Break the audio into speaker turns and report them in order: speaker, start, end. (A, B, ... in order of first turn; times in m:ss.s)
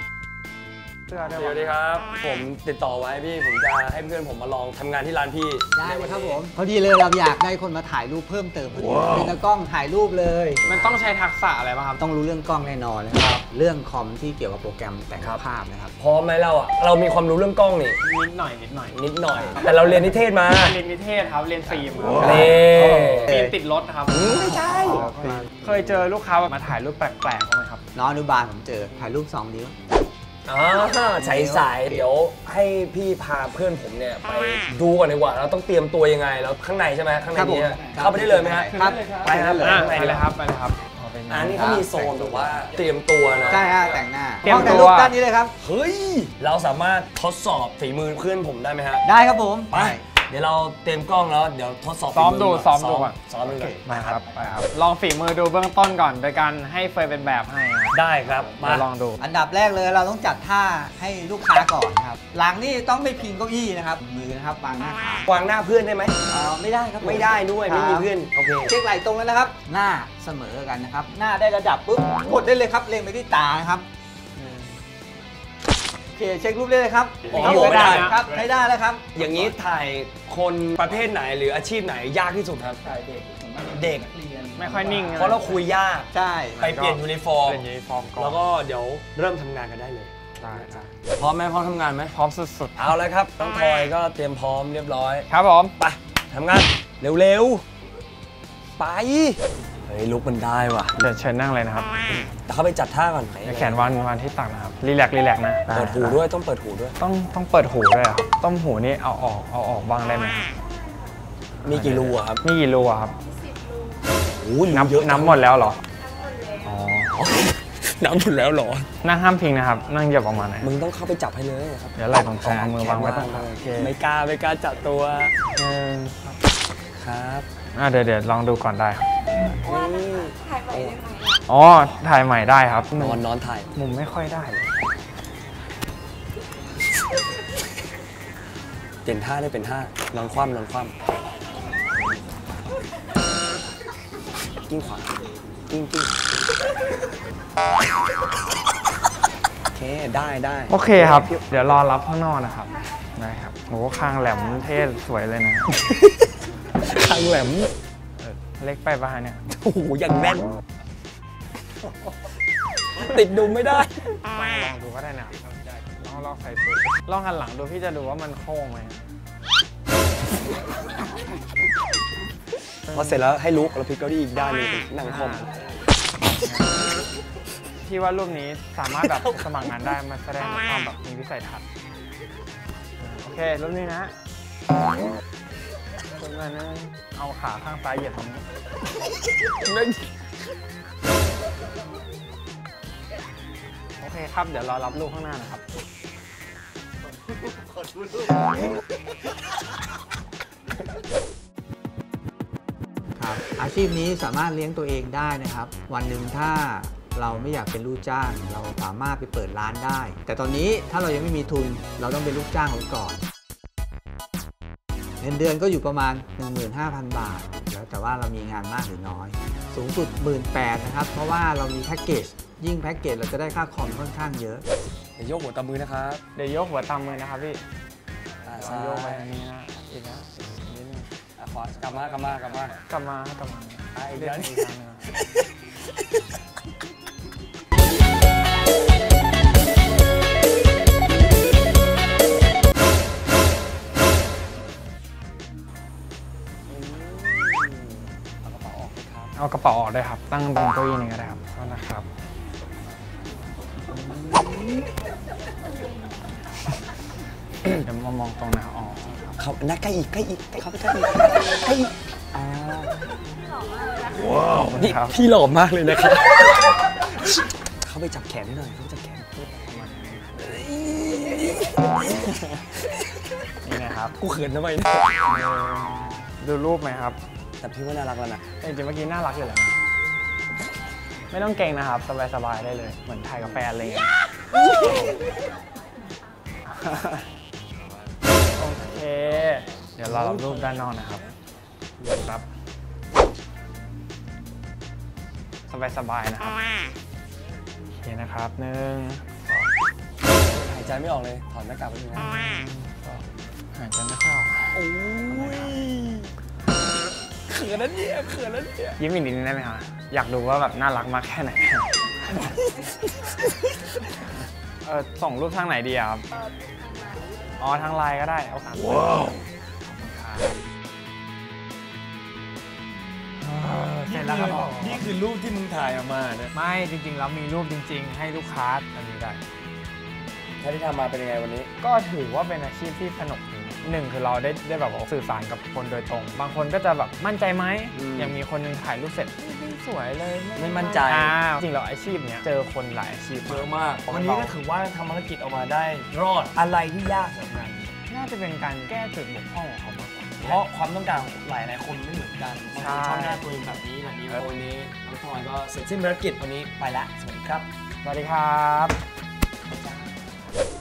0:01.1-0:01.8 A
0:01.2-0:06.4 B
0:05.8-0:11.0 C
0:10.6-0:12.0 A
0:12.0-0:15.9 C
0:16.0-0:18.0 B
0:18.0-0:19.0 A
0:18.9-0:20.8 B
0:19.3-0:19.6 C
0:20.5-0:27.8 A
0:22.2-0:23.3 B
0:23.3-0:23.5 C
0:24.1-0:25.1 B
0:24.5-0:25.8 C
0:27.9-0:29.8 C
0:30.5-0:40.3 B
0:31.2-0:32.0 C
0:37.3-0:39.9 C
0:39.6-0:42.6 A
0:41.3-0:43.9 B
0:41.6-0:42.3 C
0:43.5-0:45.6 C
0:44.4-0:45.2 A
0:45.6-0:49.1 B
0:49.0-0:50.0 C
0:49.7-0:53.9 B
0:52.1-0:53.2 A
0:53.4-0:54.3 C
0:53.8-0:58.0 A
0:57.9-0:58.9 B
0:58.6-0:59.2 A
0:59.2-1:05.3 C
1:05.3-1:06.2 B
1:06.3-1:08.1 C
1:07.0-1:08.7 B
1:08.7-1:13.8 C
1:14.4-1:14.8 A
1:16.2-1:19.4 C
1:17.3-1:18.2 B
1:17.3-1:18.2 A
1:19.2-1:22.8 B
1:22.8-1:25.2 C
1:23.6-1:24.1 B
1:24.6-1:25.6 A
1:25.1-1:27.6 B
1:26.1-1:26.6 C
1:26.6-1:28.4 A
1:28.2-1:32.2 B
1:30.4-1:30.9 A
1:32.1-1:33.0 A
1:32.8-1:35.3 B
1:35.3-1:35.8 A
1:35.8-1:37.6 B
1:38.8-1:41.0 B
1:41.0-1:42.0 A
1:42.2-1:44.0 B
1:43.4-1:46.2 A
1:45.7-1:47.0 B
1:47.0-1:50.5 A
1:51.6-1:53.2 A
1:51.6-1:52.4 B
1:54.3-1:55.6 B
1:54.7-1:55.8 A
1:56.6-1:57.2 A
1:57.1-1:58.9 B
1:59.0-2:00.7 A
2:00.6-2:05.4 B
2:02.0-2:03.9 A
2:05.6-2:06.2 A
2:07.0-2:07.5 B
2:07.7-2:09.0 A
2:09.5-2:11.2 B
2:11.5-2:13.2 A
2:13.0-2:13.7 B
2:13.7-2:14.7 A
2:19.0-2:20.9 B
2:24.7-2:25.2 B
2:25.7-2:26.1 B
2:29.7-2:31.8 B
2:30.7-2:35.7 A
2:36.8-2:37.7 B
2:38.2-2:39.4 A
2:39.5-2:40.6 B
2:43.0-2:44.1 B
2:44.2-2:49.0 A
2:52.9-2:53.3 A
2:52.9-2:55.5 B
2:55.0-2:55.5 A
2:56.3-2:56.7 A
2:57.8-3:01.6 A
2:59.2-2:59.4 B
3:03.0-3:04.2 A
3:06.1-3:08.4 A
3:09.5-3:10.0 B
3:14.0-3:15.6 A
3:23.2-3:33.2 C
3:35.2-3:44.6 C
3:45.2-3:46.2 B
3:46.4-3:47.6 A
3:48.4-3:49.3 B
3:48.6-3:51.1 A
3:51.4-3:52.8 B
3:52.9-3:55.1 A
3:54.0-3:54.7 B
4:06.7-4:09.3 B
4:09.4-4:12.1 A
4:13.9-4:14.9 B
4:17.8-4:19.4 A
4:19.4-4:22.9 B
4:24.3-4:25.2 A
4:24.5-4:26.8 B
4:27.8-4:29.3 B
4:29.4-4:30.4 A
4:30.4-4:32.3 B
4:32.0-4:32.6 A
4:33.6-4:34.2 A
4:34.2-4:35.4 B
4:35.3-4:37.2 A
4:37.6-4:38.4 B
4:38.6-4:39.8 A
4:41.3-4:44.1 A
4:46.7-4:47.3 A
4:48.6-4:51.2 A
4:50.1-4:50.6 B
4:52.0-4:52.4 A
4:55.7-4:56.6 A
4:58.0-4:59.7 A
5:00.5-5:02.3 B
5:02.2-5:04.8 A
5:04.7-5:06.3 B
5:05.3-5:05.8 A
5:07.5-5:09.0 B
5:09.0-5:12.6 A
5:14.8-5:16.2 A
5:17.6-5:20.6 A
5:23.4-5:25.1 A
5:23.8-5:26.5 B
5:26.5-5:29.4 A
5:30.6-5:31.7 B
5:31.8-5:44.6 A
5:37.9-5:38.4 B
5:40.6-5:41.4 B
5:43.5-5:48.0 B
5:48.1-5:50.6 A
5:50.4-5:57.7 B
5:52.8-5:53.4 A
5:58.0-5:59.0 A